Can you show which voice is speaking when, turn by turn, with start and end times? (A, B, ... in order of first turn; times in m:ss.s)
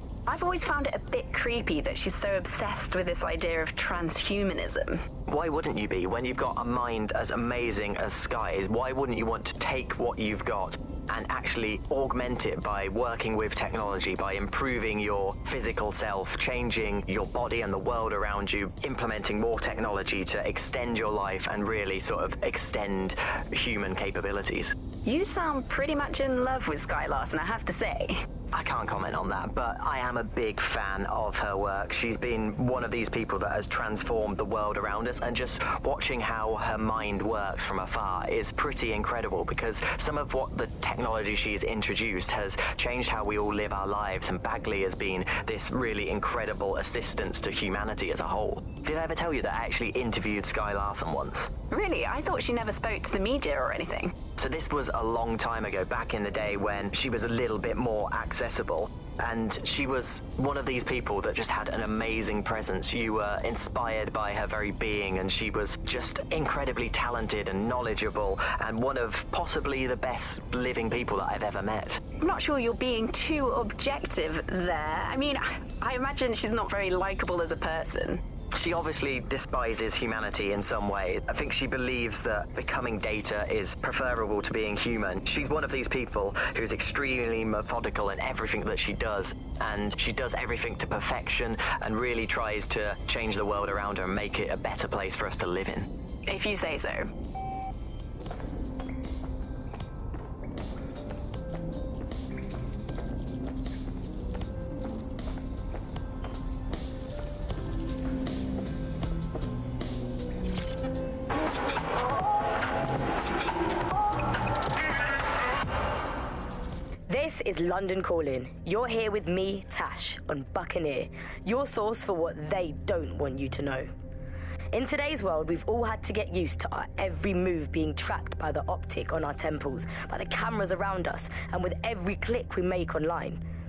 0:00.3-0:05.0 A
0:05.3-0:24.8 B
0:25.0-0:28.2 A
0:28.5-0:51.5 B
0:51.7-0:54.2 A
0:54.4-1:12.0 B
1:12.2-1:18.2 A
1:18.5-1:35.9 B
1:36.3-1:37.1 A
1:57.1-2:03.9 C
2:04.7-2:13.4 C